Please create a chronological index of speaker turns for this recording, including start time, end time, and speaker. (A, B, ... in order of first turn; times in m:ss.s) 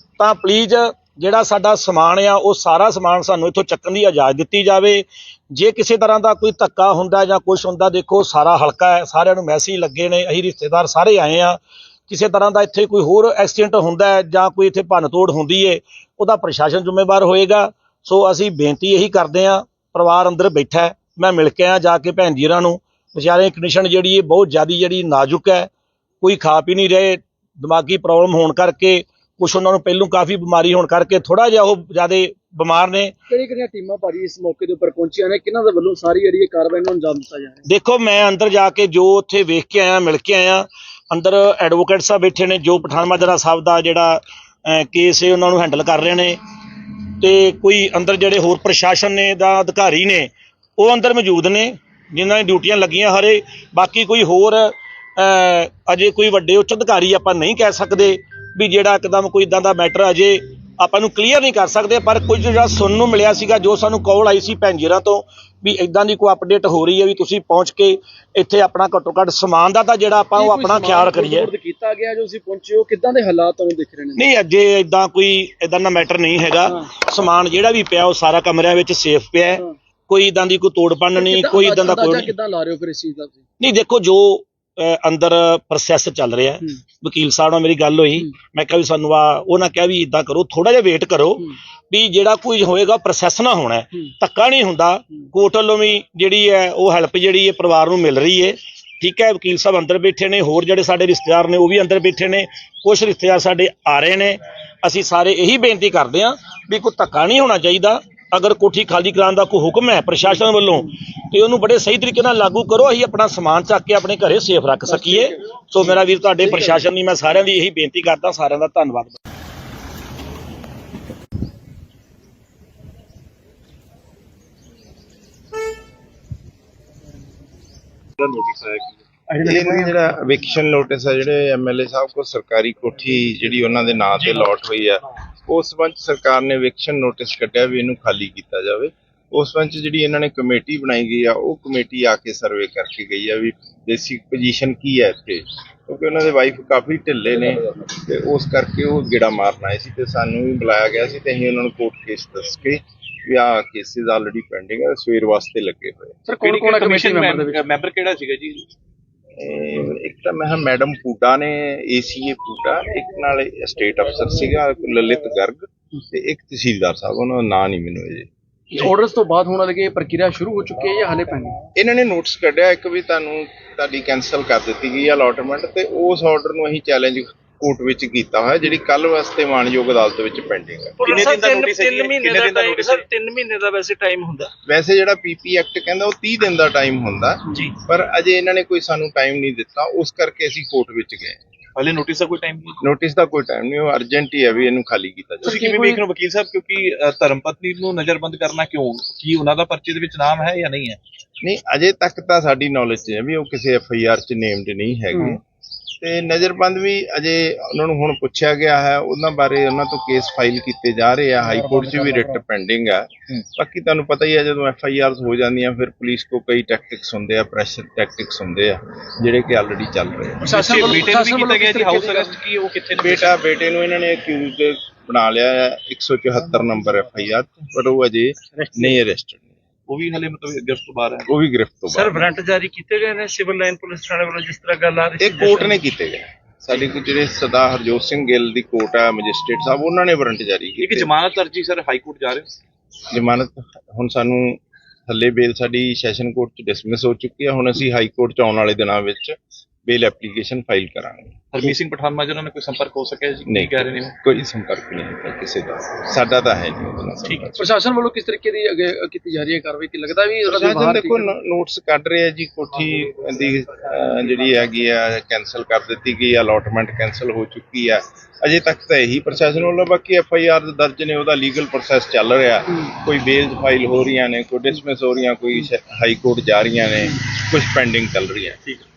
0:00.2-0:25.7 A
0:26.2-0:33.1 A
0:33.3-0:37.6 B
0:37.7-0:46.4 A
0:47.2-1:11.5 A
1:10.4-1:14.2 B
1:14.2-1:22.3 A
1:21.2-1:23.4 B
1:23.6-1:59.2 A
1:54.9-1:55.4 B
1:56.4-1:56.8 B
2:08.2-2:08.9 C
2:09.3-2:09.9 B
2:09.4-2:36.2 D
2:36.3-2:37.6 B
2:36.4-2:38.7 C
2:39.4-2:48.3 D
2:48.7-2:51.6 B
2:51.8-3:01.2 D
3:01.0-3:04.5 E
3:01.0-3:03.1 C
3:04.7-3:11.4 D
3:11.8-3:12.8 C
3:12.8-3:15.7 D
3:15.4-3:16.0 B
3:15.4-3:21.0 C
3:21.4-3:25.4 D
3:25.1-3:25.4 B
3:26.0-3:40.6 D
3:31.4-3:32.4 B
3:40.4-3:42.4 B
3:40.5-3:43.4 C
3:43.0-3:49.5 D
3:49.9-3:51.3 C
3:51.3-3:52.3 D
3:51.9-3:55.8 E
3:55.2-4:01.1 D
4:00.8-4:02.5 C
4:03.1-4:11.4 D
4:11.5-4:14.2 C
4:13.5-4:17.6 D
4:17.2-4:17.5 C
4:17.6-4:21.3 B
4:20.5-4:38.8 D